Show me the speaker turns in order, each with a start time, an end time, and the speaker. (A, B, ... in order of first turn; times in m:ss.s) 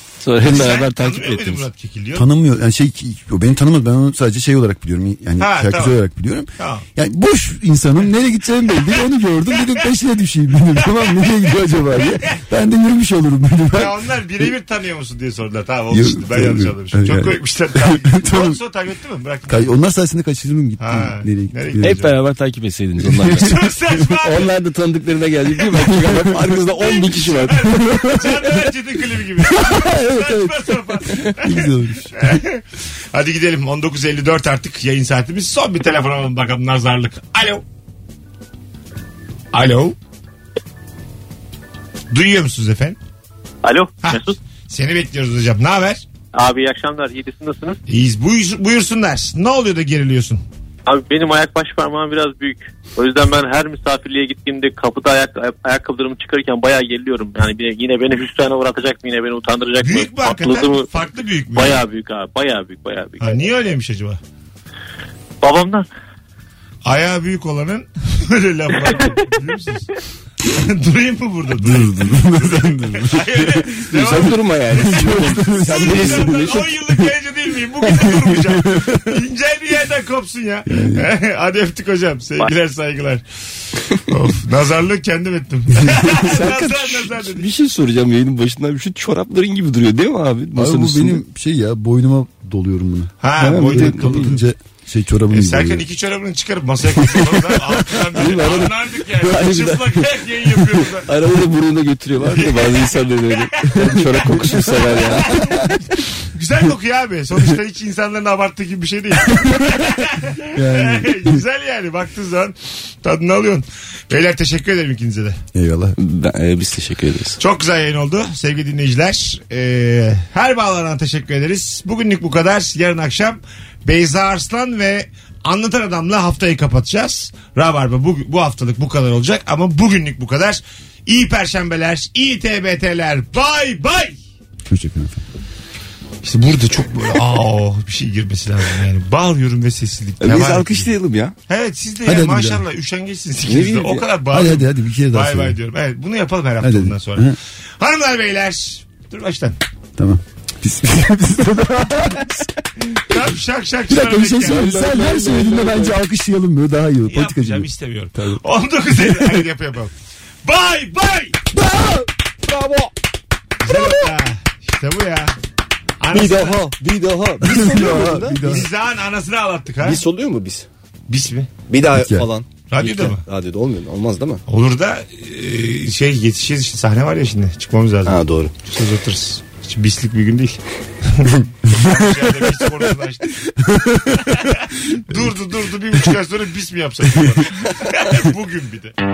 0:00.2-0:01.7 A
0:00.4-0:02.3 B
0:02.2-0:13.9 C
0:05.4-0:06.0 B
0:06.6-0:06.8 B
0:13.7-0:19.7 B
0:15.9-0:18.6 C
0:19.5-0:22.1 C
0:20.8-0:22.1 B
0:21.8-0:28.1 A
0:23.1-0:23.5 C
0:23.4-0:24.5 B
0:26.0-0:26.6 C
0:26.8-0:32.6 B
0:29.7-0:30.4 C
0:31.4-0:32.4 C
0:33.1-0:37.6 B
0:39.5-0:40.0 B
0:42.1-0:43.0 B
0:43.6-0:44.4 D
0:44.0-0:46.0 B
0:46.3-0:47.8 D
0:47.9-0:50.4 B
0:50.9-1:00.9 D
0:59.8-1:01.8 B
1:01.5-1:03.3 D
1:03.2-1:04.2 B
1:05.4-1:05.9 D
1:06.8-1:09.9 B
1:10.5-1:23.2 B
1:11.6-1:13.6 C
1:13.9-1:16.8 A
1:14.8-1:16.5 C
1:20.7-1:21.1 C
1:24.1-1:27.5 B
1:26.2-1:31.2 A
1:30.6-1:35.8 C
1:33.2-1:34.4 B
1:33.4-1:34.4 A
1:35.3-1:41.1 B
1:38.2-1:40.0 A
1:40.6-1:45.4 A
1:42.3-1:44.0 B
1:43.8-1:45.6 C
1:45.1-1:45.7 B
1:46.3-1:55.4 B
1:50.6-1:51.4 C
1:55.5-1:56.0 C
1:56.0-1:57.4 A
1:57.4-2:14.2 B
2:14.7-2:15.2 C
2:16.2-2:20.9 B
2:20.2-2:21.3 A
2:21.5-2:29.6 B
2:22.0-2:22.6 C
2:23.5-2:24.1 A
2:24.3-2:25.6 C
2:26.6-2:27.4 C
2:30.0-2:32.3 C
2:33.1-2:34.8 B
2:33.9-2:38.4 C
2:34.5-2:35.9 A
2:37.1-2:39.9 B
2:39.0-2:39.4 C
2:40.4-2:41.4 B
2:42.4-2:42.9 A
2:43.6-2:45.3 B
2:46.0-2:46.6 B
2:46.1-2:48.5 A
2:47.4-2:48.7 C
2:48.4-2:50.0 B
2:49.8-2:50.7 A
2:51.1-2:51.5 B
2:51.7-2:54.4 A
2:52.0-2:52.3 C
2:52.7-2:53.2 B
2:54.5-3:03.4 B
2:58.0-2:58.5 A
3:03.7-3:04.2 C
3:04.1-3:08.9 B